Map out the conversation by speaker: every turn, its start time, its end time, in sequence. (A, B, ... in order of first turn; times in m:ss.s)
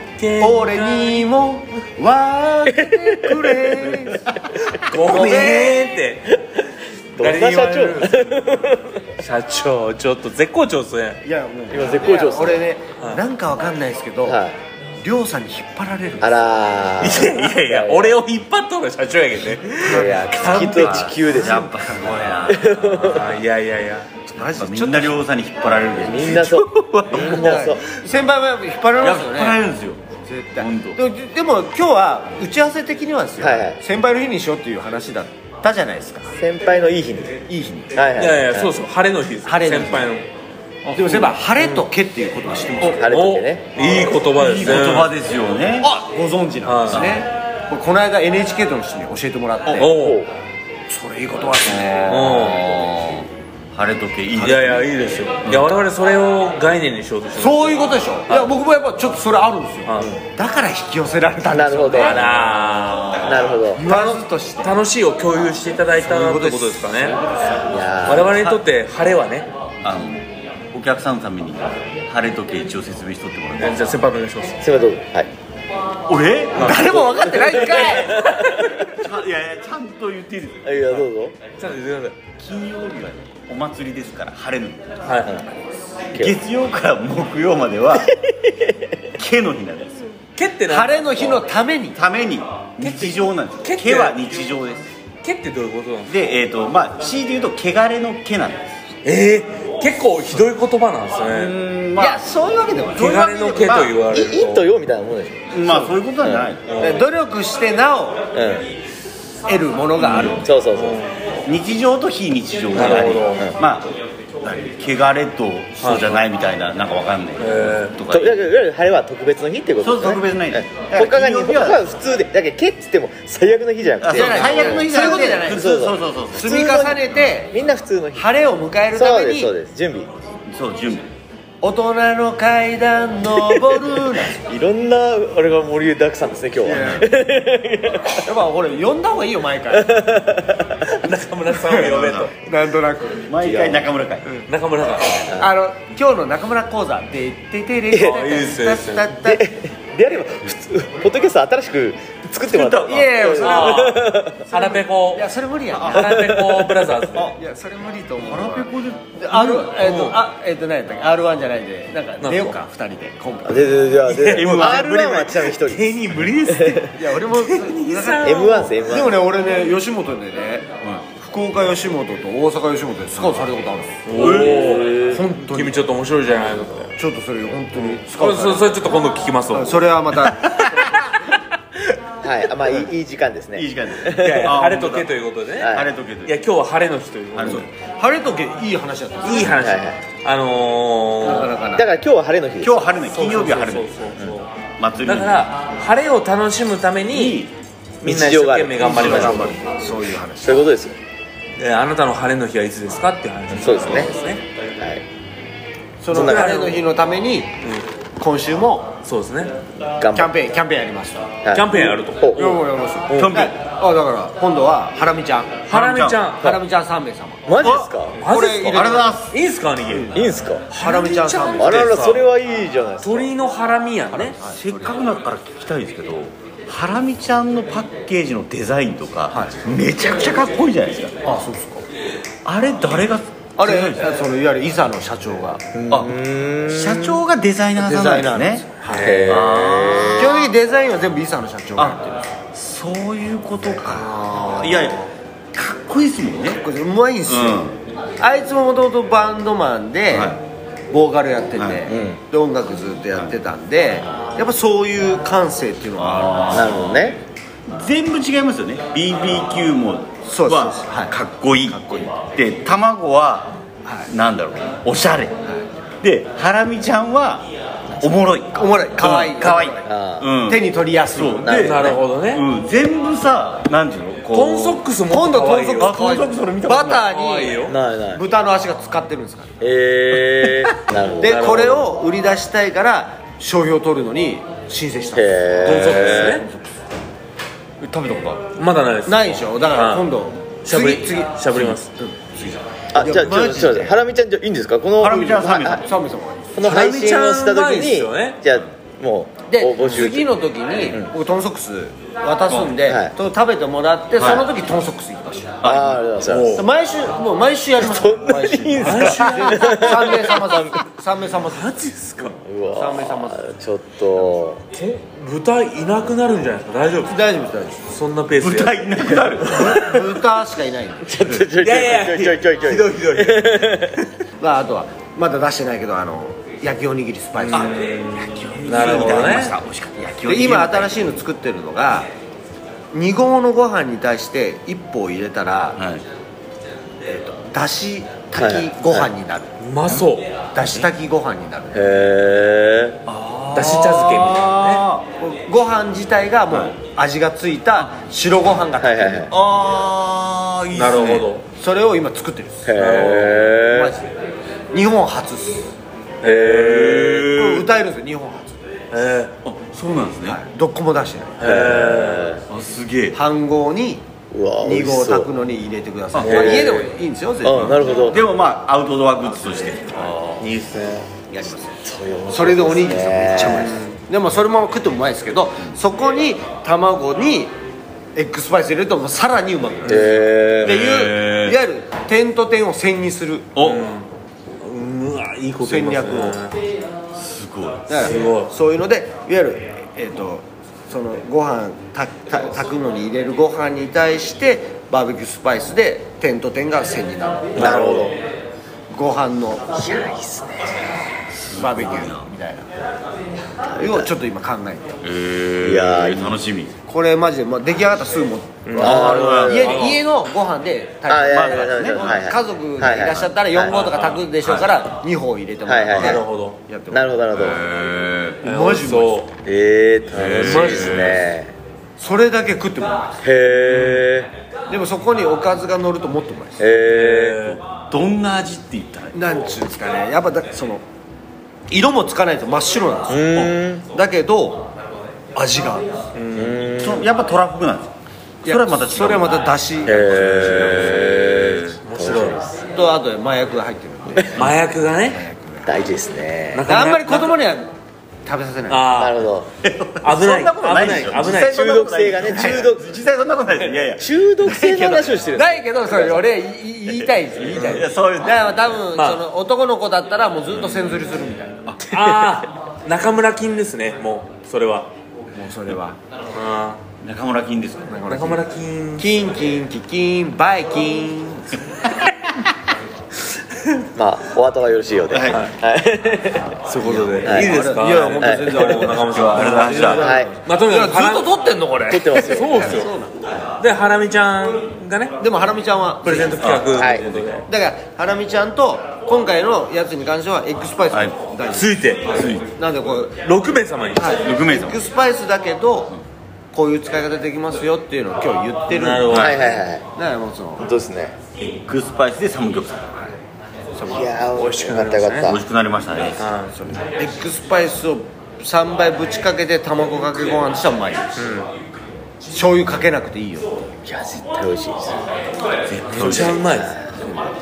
0:00.2-0:01.3 A
0:00.4-0:05.8 B
0:02.6-0:04.0 C
0:04.5-0:06.4 A
0:07.2-0:09.0 C
0:07.2-0:08.5 A
0:09.2-0:11.2 A
0:11.2-0:14.4 B
0:11.7-0:12.6 C
0:14.2-0:14.6 C
0:15.0-0:16.4 B
0:16.2-0:18.2 C
0:17.0-0:21.1 A
0:19.8-0:21.7 C
0:19.8-0:21.6 B
0:20.4-0:23.3 D
0:22.4-0:23.3 C
0:23.0-0:24.1 A
0:24.3-0:25.2 B
0:24.6-0:27.7 D
0:26.0-0:27.8 C
0:27.1-0:29.6 B
0:29.0-0:31.0 D
0:30.2-0:36.3 B
0:33.4-0:33.8 C
0:36.3-0:38.7 C
0:37.5-0:37.9 B
0:38.2-0:40.3 A
0:39.4-0:40.1 B
0:40.9-0:41.8 A
0:40.9-0:43.0 B
0:42.8-0:43.7 C
0:42.8-0:45.1 A
0:43.8-0:45.9 D
0:45.8-0:49.9 B
0:46.6-0:47.2 A
0:46.9-0:47.2 D
0:49.8-0:50.2 A
0:49.8-0:50.3 C
0:50.9-0:52.4 B
0:51.6-0:55.6 D
0:52.1-0:52.6 A
0:54.4-0:58.5 A
0:57.4-1:03.0 B
0:59.9-1:00.1 A
1:01.5-1:02.2 C
1:01.9-1:03.1 A
1:02.7-1:03.5 D
1:03.2-1:03.9 C
1:03.7-1:04.7 B
1:03.8-1:07.2 A
1:06.0-1:07.7 B
1:07.7-1:08.5 C
1:08.0-1:09.5 A
1:09.8-1:14.0 D
1:13.6-1:14.6 A
1:14.6-1:15.3 C
1:16.1-1:17.1 D
1:16.6-1:16.9 A
1:16.6-1:18.3 B
1:16.9-1:18.7 C
1:17.9-1:18.7 A
1:18.9-1:21.0 D
1:20.6-1:21.4 C
1:21.6-1:22.2 A
1:22.4-1:25.1 D
1:25.0-1:25.3 A
1:26.1-1:28.1 D
1:28.0-1:29.0 C
1:29.1-1:30.0 D
1:30.4-1:31.4 A
1:30.7-1:32.0 B
1:31.9-1:34.9 D
1:32.8-1:34.2 A
1:35.2-1:36.1 A
1:36.1-1:38.7 D
1:39.0-1:41.6 A
1:41.3-1:42.2 D
1:42.0-1:43.7 B
1:43.0-1:44.7 A
1:43.0-1:44.0 D
1:44.1-1:46.5 C
1:45.5-1:46.6 D
1:46.6-1:47.1 A
1:46.8-1:48.2 B
1:48.3-1:48.6 C
1:49.4-1:50.5 B
1:50.0-1:50.4 D
1:50.1-1:51.1 A
1:50.4-1:51.0 C
1:51.4-1:53.9 D
1:52.7-1:53.5 A
1:52.8-1:53.6 C
1:54.4-1:58.4 D
1:55.8-1:56.2 A
1:57.4-1:58.0 A
1:58.1-2:08.3 C
1:59.8-2:01.9 D
2:04.0-2:06.8 D
2:04.1-2:05.8 B
2:06.3-2:07.5 B
2:08.1-2:09.5 B
2:08.9-2:10.1 C
2:10.5-2:11.1 D
2:11.6-2:14.4 B
2:13.6-2:18.3 C
2:16.6-2:17.1 B
2:18.2-2:20.2 B
2:19.7-2:20.8 C
2:20.8-2:22.4 A
2:21.5-2:21.9 B
2:21.7-2:22.3 D
2:22.4-2:23.6 B
2:23.2-2:24.4 D
2:24.5-2:25.3 A
2:25.3-2:29.4 B
2:27.9-2:29.1 A
2:29.2-2:34.5 C
2:32.4-2:33.2 D
2:32.8-2:36.4 B
2:33.2-2:35.3 A
2:35.7-2:36.1 D
2:35.8-2:37.3 A
2:35.9-2:36.9 C
2:37.2-2:43.9 B
2:38.2-2:39.6 D
2:39.3-2:40.2 A
2:42.2-2:42.6 A
2:43.4-2:46.9 C
2:44.0-2:48.8 A
2:44.2-2:45.2 D
2:46.9-2:54.0 B
2:48.2-2:49.2 C
2:54.0-2:56.9 A
2:54.1-2:54.9 D
2:54.1-2:55.2 C
2:55.1-2:55.8 B
2:57.0-2:58.8 B
2:58.0-2:59.8 A
2:59.5-3:01.1 B
3:02.2-3:04.6 C
3:03.5-3:05.1 D
3:04.1-3:07.7 A
3:05.6-3:05.9 C
3:05.7-3:06.4 D
3:07.3-3:07.7 D
3:07.5-3:09.6 B
3:09.2-3:11.5 A
3:09.5-3:10.0 C
3:11.2-3:11.9 B
3:11.7-3:12.9 C
3:12.6-3:13.9 D
3:13.0-3:17.4 A
3:14.8-3:15.5 D
3:17.1-3:17.5 D
3:18.0-3:19.6 A
3:18.0-3:19.5 C
3:18.8-3:20.7 B
3:20.4-3:21.0 C
3:21.6-3:24.4 A
3:23.5-3:24.1 C
3:24.8-3:25.0 C
3:26.0-3:27.6 B
3:26.1-3:26.8 A
3:26.1-3:26.6 C
3:28.2-3:29.0 B
3:29.0-3:29.5 A
3:30.0-3:30.3 C
3:30.1-3:31.3 B
3:31.4-3:32.6 C
3:31.5-3:33.4 A
3:32.3-3:35.6 B
3:33.1-3:33.5 D
3:35.7-3:36.6 A
3:35.7-3:36.2 D
3:36.4-3:39.2 B
3:37.4-3:38.2 C
3:37.6-3:39.3 D
3:38.2-3:42.2 A
3:40.1-3:40.7 C
3:40.7-3:42.0 B
3:41.6-3:43.3 C
3:43.0-3:44.4 A
3:44.1-3:44.6 B
3:44.4-3:51.4 D
3:49.3-3:49.6 B
3:51.2-3:51.8 B
3:52.4-3:54.1 D
3:53.6-3:55.6 B
3:55.7-3:57.2 C
3:55.9-3:56.2 D
3:56.7-4:00.4 D
3:57.8-3:59.3 B
3:58.8-3:59.3 A
3:59.0-4:00.4 C
4:00.0-4:02.2 B
4:02.5-4:06.6 D
4:03.9-4:05.0 A
4:06.6-4:07.7 B
4:07.3-4:07.8 D
4:08.2-4:10.4 B
4:10.1-4:10.4 D
4:10.9-4:16.7 B
4:11.6-4:11.8 D
4:11.9-4:12.2 C
4:16.0-4:17.1 D
4:16.5-4:17.2 C
4:17.7-4:25.4 D
4:20.2-4:21.1 B
4:21.6-4:22.1 B
4:23.8-4:24.1 B
4:26.0-4:34.8 D
4:28.5-4:29.8 B
4:29.8-4:30.3 C
4:30.4-4:31.7 B
4:31.4-4:32.0 C
4:31.5-4:32.4 A
4:34.3-4:36.1 A
4:35.1-4:39.5 B
4:35.7-4:37.1 D
4:37.1-4:37.7 A
4:37.6-4:38.2 C
4:39.6-4:41.7 C
4:40.2-4:40.4 D
4:41.2-4:46.8 B
4:41.2-4:41.9 A
4:45.1-4:46.4 C
4:45.6-4:46.4 A
4:47.8-4:48.5 B
4:48.6-4:50.1 A
4:49.0-4:54.0 B
4:50.6-4:51.9 A
4:52.9-4:55.8 C
4:55.0-4:55.9 D
4:55.5-4:56.6 B
4:56.5-5:00.3 C
4:56.6-4:58.4 A
4:59.5-5:05.6 B
5:02.5-5:02.8 D
5:02.8-5:03.1 C
5:04.2-5:04.5 D
5:05.6-5:06.0 D
5:05.6-5:06.6 C
5:06.2-5:06.7 A
5:06.6-5:13.4 B
5:07.8-5:10.8 C
5:08.8-5:10.1 A
5:11.5-5:12.4 A
5:12.4-5:14.6 C
5:14.7-5:17.2 A
5:17.1-5:17.9 B
5:17.9-5:19.8 A
5:18.4-5:20.0 D
5:19.5-5:21.2 B
5:21.0-5:24.0 C
5:21.2-5:21.5 D
5:21.6-5:24.1 A
5:24.4-5:27.8 B
5:27.4-5:29.6 A
5:27.5-5:31.2 D
5:30.2-5:32.1 B
5:32.9-5:35.8 B
5:35.8-5:36.0 D
5:37.0-5:39.6 B
5:38.3-5:39.1 C
5:39.6-5:40.3 A
5:40.5-5:41.8 B
5:40.6-5:40.9 D
5:41.7-5:43.0 C
5:43.1-5:45.0 D
5:43.5-5:44.8 A
5:45.2-5:49.3 B
5:48.8-5:49.3 C
5:49.3-5:51.3 D
5:50.7-5:51.4 A
5:51.5-5:54.1 B
5:52.6-5:53.9 C
5:52.7-5:53.4 A
5:54.7-5:55.7 B
5:56.2-5:57.1 C
5:56.2-5:57.3 A
5:56.6-5:57.7 D
5:57.3-5:58.6 B
5:58.9-5:59.3 A
5:59.4-6:00.4 D
6:00.2-6:01.4 B
6:01.4-6:02.3 A
6:01.4-6:02.4 C
6:02.5-6:03.2 D
6:03.1-6:04.0 B
6:04.3-6:05.3 C
6:04.6-6:08.0 B
6:06.1-6:06.6 D
6:06.2-6:06.7 A
6:06.3-6:06.8 C
6:07.4-6:08.2 C
6:07.4-6:10.5 D
6:10.4-6:11.1 A
6:11.3-6:11.8 B
6:11.8-6:13.8 C
6:12.3-6:17.5 B
6:13.4-6:14.0 A
6:18.1-6:23.5 B
6:19.8-6:20.8 C
6:20.6-6:21.6 D
6:23.5-6:23.9 D
6:23.6-6:24.1 A
6:24.6-6:26.5 A
6:25.6-6:26.4 B
6:27.1-6:28.0 D
6:27.9-6:37.8 B
6:28.0-6:28.5 A
6:37.6-6:38.1 C
6:37.6-6:38.1 A
6:38.9-6:39.7 B
6:39.7-6:40.9 C
6:41.4-6:42.3 D
6:41.5-6:42.7 B
6:43.6-6:44.1 C
6:43.8-6:45.0 B
6:45.0-6:46.7 D
6:45.6-6:46.4 C
6:46.9-6:57.2 B
6:48.6-6:50.0 A
6:48.8-6:49.8 D
6:48.8-6:49.8 C
6:51.1-6:53.8 C
6:51.2-6:52.4 D
6:52.9-6:53.2 D
6:53.6-6:54.2 A
6:54.4-6:54.8 D
6:55.6-6:56.2 C
6:55.9-6:56.2 D
6:55.9-6:56.6 A
6:56.9-6:57.6 C
6:57.3-6:58.4 D
6:58.4-6:59.2 B
6:58.4-6:59.3 A
6:59.4-7:01.5 C
7:00.1-7:01.2 D
7:00.4-7:01.1 B
7:02.0-7:03.7 B
7:03.2-7:04.3 C
7:04.7-7:06.7 B
7:06.6-7:07.5 C
7:06.8-7:07.6 A
7:07.6-7:09.2 D
7:09.1-7:10.8 B
7:11.7-7:14.7 B
7:13.1-7:13.8 C
7:15.3-7:15.9 B
7:16.1-7:16.7 A
7:16.3-7:17.1 C
7:16.8-7:21.8 D
7:18.4-7:21.0 B
7:19.8-7:22.6 C
7:21.8-7:22.4 A
7:22.7-7:25.8 B
7:24.2-7:24.5 C
7:24.3-7:25.2 A
7:25.6-7:26.7 C
7:26.5-7:27.4 A
7:26.7-7:27.7 B
7:28.2-7:28.9 B
7:28.7-7:29.2 A
7:28.9-7:29.5 C
7:29.6-7:34.1 D
7:30.0-7:31.7 A
7:31.2-7:32.8 C
7:32.2-7:32.6 B
7:34.0-7:36.3 C
7:34.4-7:41.6 B
7:37.0-7:38.8 D
7:37.5-7:37.8 A
7:39.0-7:39.2 A
7:41.9-7:44.9 A
7:41.9-7:42.4 C
7:45.3-7:46.0 B
7:46.3-7:46.8 A
7:47.0-7:47.9 D
7:47.9-7:48.4 B
7:48.1-7:49.1 A
7:49.0-7:51.6 B
7:53.9-7:57.6 C
7:55.1-7:55.4 D
7:56.7-8:01.3 A
7:57.2-8:03.1 B
7:58.2-7:58.9 C
7:59.2-8:00.1 D
8:00.0-8:00.3 C
8:01.9-8:02.9 C
8:02.2-8:02.9 A
8:03.6-8:05.2 A
8:05.2-8:06.6 B
8:06.0-8:07.5 A
8:06.4-8:06.7 D
8:06.8-8:07.1 C
8:07.5-8:13.2 B
8:10.9-8:11.2 D
8:11.5-8:12.2 A
8:12.1-8:12.4 D
8:13.2-8:14.2 A
8:14.0-8:15.9 B
8:14.1-8:14.8 D
8:16.5-8:19.4 B
8:18.7-8:19.6 A
8:19.1-8:19.4 D
8:19.1-8:19.8 C
8:19.9-8:20.7 B
8:20.6-8:21.2 C
8:21.4-8:22.9 D
8:23.8-8:24.2 B
8:23.9-8:25.4 C
8:24.3-8:25.3 A
8:25.2-8:26.7 D
8:26.2-8:26.5 A
8:26.5-8:31.1 B
8:31.2-8:31.5 A
8:32.3-8:33.7 B
8:33.8-8:35.0 C
8:35.6-8:36.5 D
8:35.9-8:36.7 A
8:36.3-8:37.0 C
8:37.0-8:37.3 B